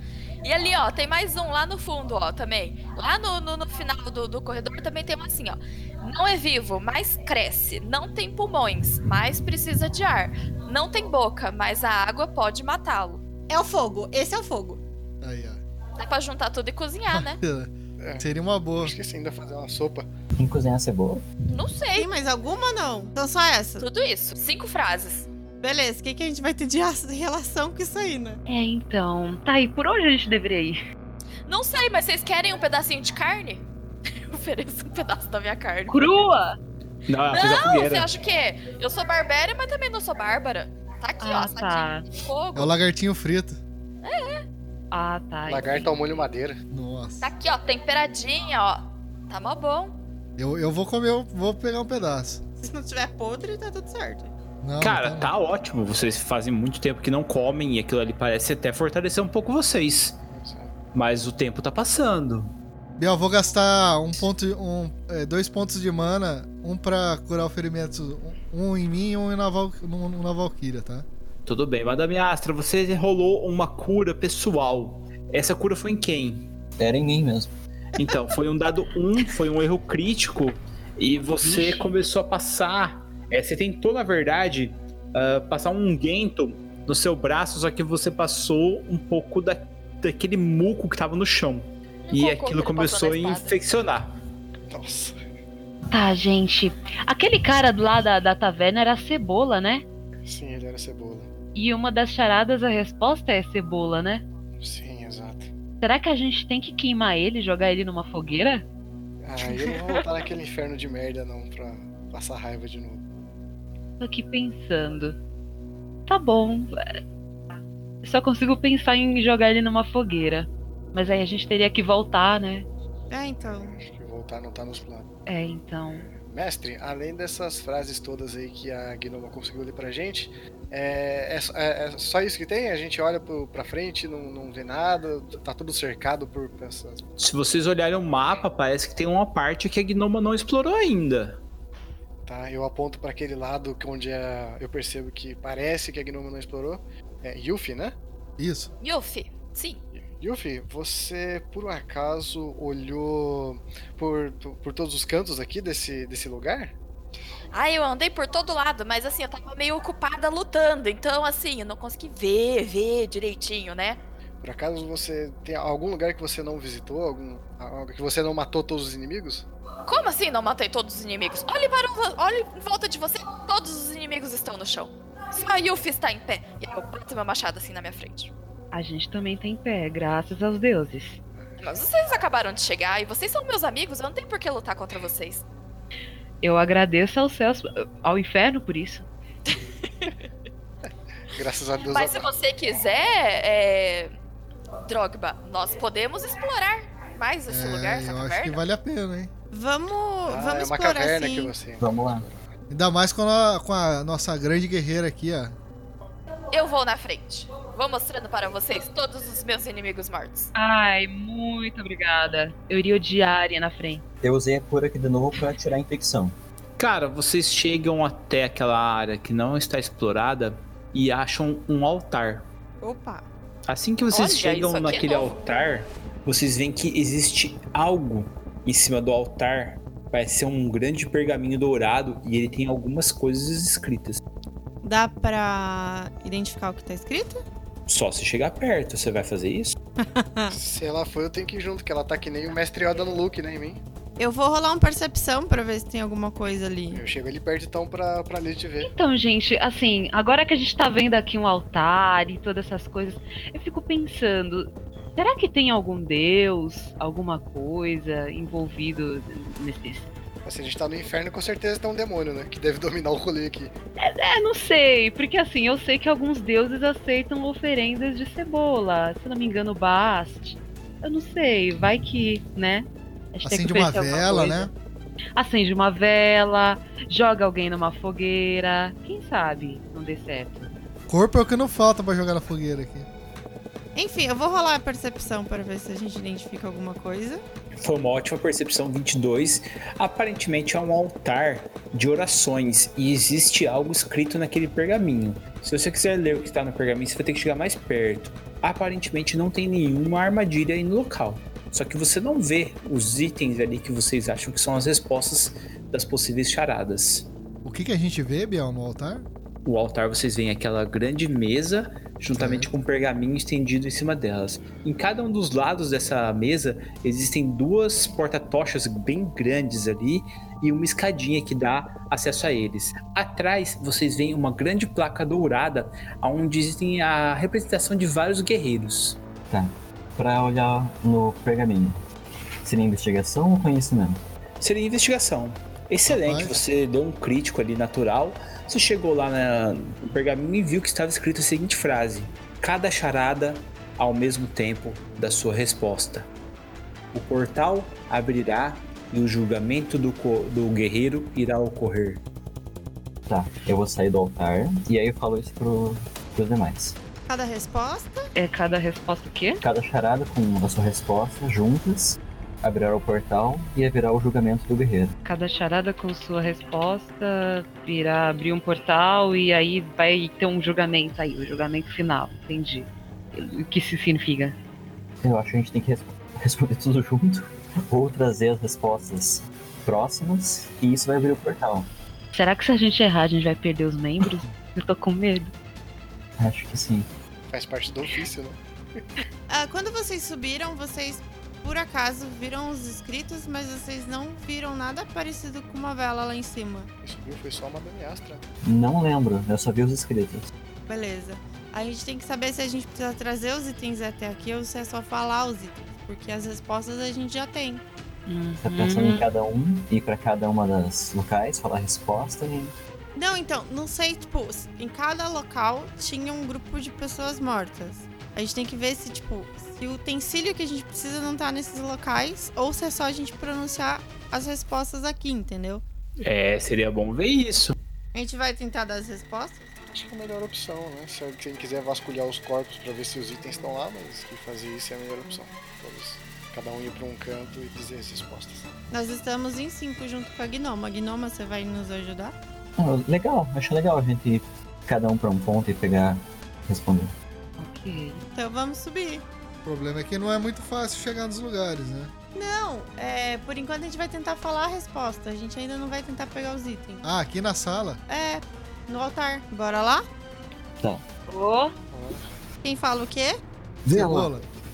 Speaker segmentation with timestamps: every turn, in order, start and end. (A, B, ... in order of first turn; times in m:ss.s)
0:00.4-0:13.2 A
0:13.5-0:14.8 B
0:15.2-0:15.6 C
0:16.0-0:17.4 A
0:17.1-0:18.9 C
0:18.0-0:20.1 D
0:20.4-0:21.2 E
0:21.5-0:22.1 A
0:21.9-0:23.8 B
0:23.8-0:25.3 A
0:25.6-0:28.4 B
0:28.5-0:30.8 F
0:31.4-0:36.1 A
0:35.9-0:36.6 F
0:37.1-0:38.1 G
0:37.3-0:42.7 A
0:41.2-0:42.1 F
0:42.5-0:43.6 C
0:44.0-0:44.4 A
0:44.9-0:45.9 F
0:45.5-0:46.6 D
0:46.7-0:47.3 C
0:47.2-0:50.0 A
0:50.4-0:52.4 C
0:52.6-0:54.3 B
0:54.6-0:55.3 C
0:54.8-1:00.2 G
1:00.3-1:00.7 D
1:00.9-1:02.5 G
1:03.0-1:11.0 C
1:11.4-1:16.5 G
1:16.8-1:17.5 E
1:18.0-1:34.1 G
1:21.4-1:21.8 F
1:32.1-1:33.5 A
1:34.7-1:35.2 D
1:35.9-1:39.8 F
1:40.2-1:41.3 D
1:41.5-1:44.2 F
1:44.6-1:45.5 D
1:45.8-1:48.6 F
1:49.2-1:53.1 D
1:54.0-1:55.2 F
1:56.1-1:57.0 F
1:58.0-2:02.7 F
2:03.1-2:03.8 B
2:03.8-2:05.1 D
2:05.3-2:06.1 F
2:06.2-2:17.0 D
2:17.2-2:21.4 G
2:22.2-2:28.0 D
2:28.4-2:28.7 C
2:28.8-2:29.8 A
2:30.0-2:36.7 D
2:37.5-2:44.0 A
2:44.4-2:49.4 D
2:49.8-2:58.3 A
2:58.7-3:01.2 F
3:01.6-3:05.4 A
3:06.4-3:09.1 F
3:09.5-3:10.1 A
3:11.3-3:12.3 D
3:11.8-3:14.1 A
3:14.8-3:18.6 A
3:17.5-3:19.3 C
3:19.5-3:21.5 B
3:20.2-3:22.5 D
3:21.8-3:22.2 E
3:22.7-3:25.6 C
3:26.5-3:30.5 A
3:30.5-3:34.0 F
3:34.2-3:36.4 E
3:36.8-3:42.5 G
3:42.8-3:43.2 B
3:43.7-3:54.2 G
3:44.1-3:45.3 A
3:54.8-3:57.4 B
3:57.9-3:59.7 G
4:00.0-4:00.5 B
4:00.5-4:03.8 D
4:04.2-4:07.0 B
4:06.9-4:08.9 D
4:08.8-4:20.1 F
4:20.4-4:23.7 D
4:24.0-4:34.7 F
4:33.4-4:34.7 C
4:35.4-4:40.7 F
4:41.1-4:43.1 C
4:43.9-4:47.4 B
4:47.8-5:07.3 G
5:07.6-5:09.3 C
5:09.6-5:29.2 G
5:12.3-5:12.7 C
5:29.5-5:32.0 E
5:32.6-5:34.2 E
5:34.6-5:46.3 G
5:36.1-5:36.6 C
5:47.1-5:52.2 G
5:53.3-5:57.0 E
5:57.3-5:58.3 B
5:58.4-5:59.6 F
5:59.6-6:05.1 E
6:05.2-6:14.6 F
6:15.2-6:21.9 E
6:22.3-6:25.5 F
6:26.4-6:27.1 E
6:27.5-6:29.0 D
6:29.5-6:36.9 B
6:37.0-6:38.4 D
6:38.6-6:40.5 E
6:40.9-6:47.8 B
6:48.3-6:49.2 F
6:48.6-6:52.7 E
6:53.2-7:05.8 B
7:06.2-7:07.7 G
7:08.1-7:09.7 B
7:09.9-7:18.7 D
7:18.9-7:22.3 B
7:22.8-7:27.1 E
7:27.6-7:28.2 F
7:28.3-7:29.2 B
7:29.6-7:32.1 C
7:32.3-7:37.0 B
7:37.0-7:38.0 C
7:38.1-7:40.0 B
7:41.3-7:41.7 F
7:41.9-7:42.2 D
7:42.6-7:43.4 B
7:43.8-7:44.3 E
7:43.9-7:44.4 C